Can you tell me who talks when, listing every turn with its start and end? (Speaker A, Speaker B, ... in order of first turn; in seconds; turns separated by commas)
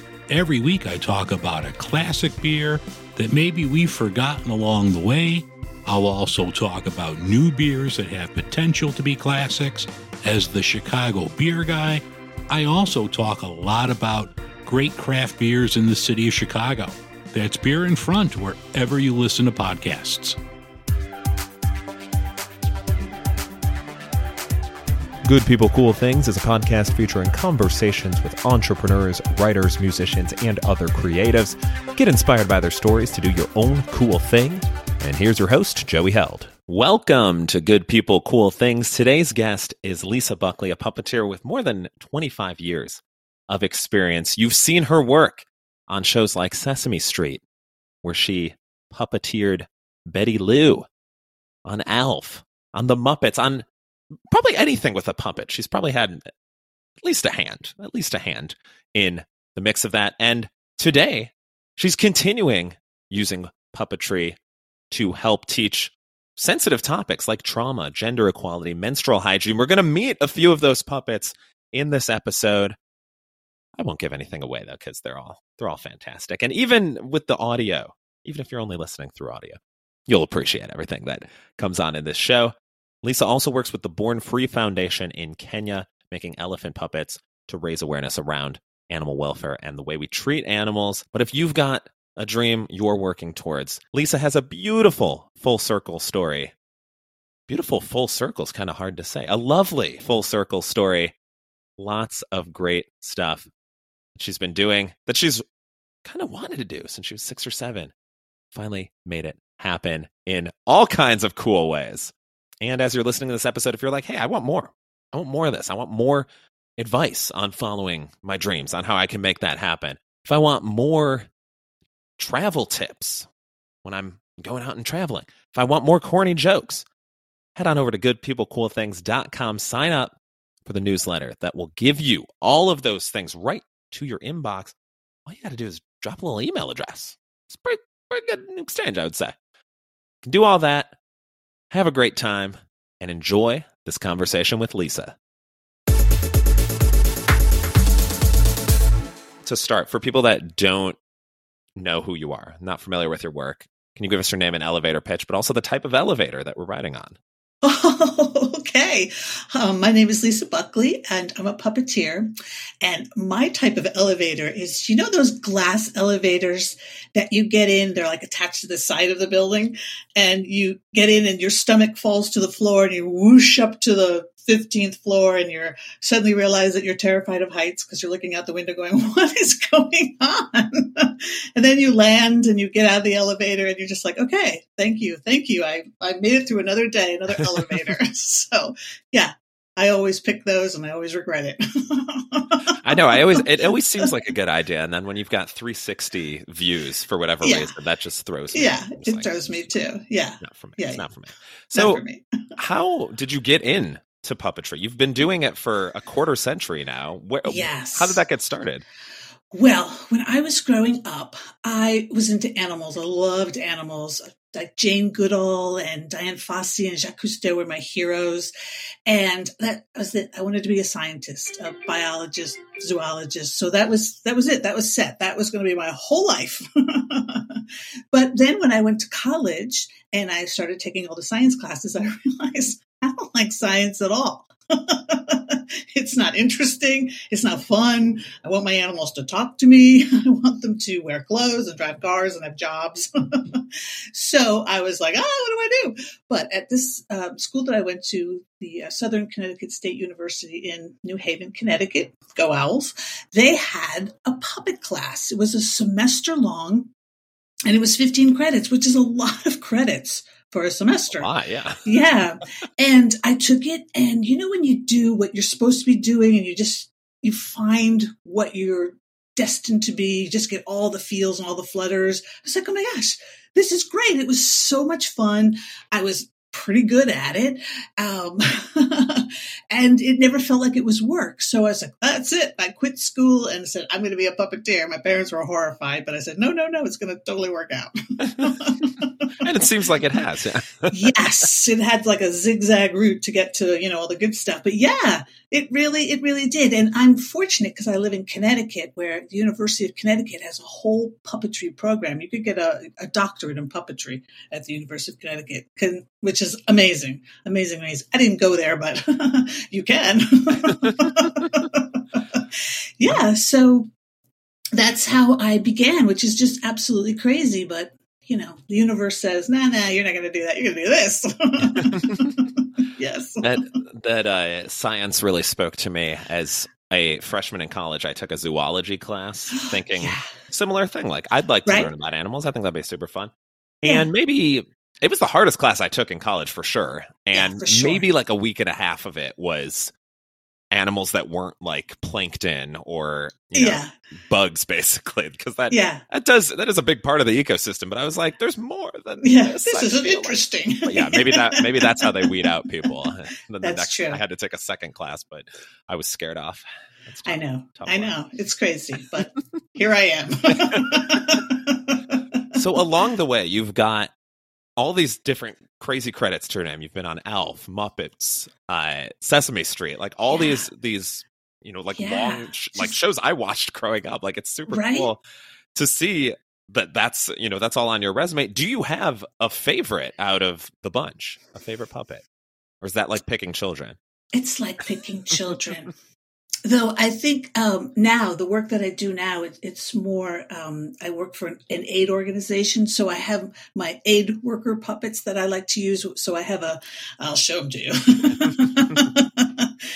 Speaker A: 0.3-20.4, Speaker B: 25.2-47.4, Speaker B: 48.0-50.9, Speaker B: 51.6-53.7, Speaker B: 54.3-56.3, Speaker B: 57.0-64.4, Speaker B: 64.9-72.8, Speaker B: 73.8-96.5, Speaker B: 97.5-101.1, Speaker B: 101.8-103.5, Speaker B: 104.2-105.4, Speaker B: 106.0-107.9, Speaker B: 108.5-121.3, Speaker B: 122.2-123.3, Speaker B: 123.8-126.8, Speaker B: 127.6-134.7, Speaker B: 135.3-139.3, Speaker B: 140.2-141.0, Speaker B: 141.7-145.2, Speaker B: 149.4-151.0, Speaker B: 151.8-157.2, Speaker C: 157.6-162.3, Speaker C: 162.8-193.5, Speaker B: 192.8-199.7, Speaker C: 197.4-197.7, Speaker C: 198.5-201.1, Speaker B: 200.4-202.0, Speaker C: 201.7-202.2, Speaker B: 202.6-208.8, Speaker C: 207.5-208.2, Speaker C: 209.5-218.5, Speaker C: 219.1-243.6, Speaker C: 244.1-256.9, Speaker C: 257.7-261.3, Speaker B: 261.1-261.8, Speaker C: 261.8-289.5, Speaker B: 288.2-288.5, Speaker B: 289.4-291.1, Speaker C: 290.9-312.4, Speaker B: 310.7-311.1, Speaker C: 313.0-313.9, Speaker C: 314.8-323.5, Speaker B: 321.6-322.3, Speaker B: 323.4-333.3, Speaker C: 329.6-330.3, Speaker B: 333.8-339.9, Speaker C: 333.8-334.1, Speaker C: 337.3-338.1, Speaker B: 340.7-358.1, Speaker C: 343.5-343.9, Speaker C: 345.7-346.0, Speaker C: 349.2-352.4, Speaker C: 353.6-354.2, Speaker C: 357.2-362.2, Speaker B: 360.6-360.9, Speaker B: 362.6-364.1, Speaker B: 364.8-375.2, Speaker C: 370.3-370.7, Speaker C: 371.9-373.0, Speaker C: 374.7-375.1, Speaker B: 375.8-382.2, Speaker B: 382.8-384.0, Speaker C: 384.3-385.9, Speaker C: 386.6-399.7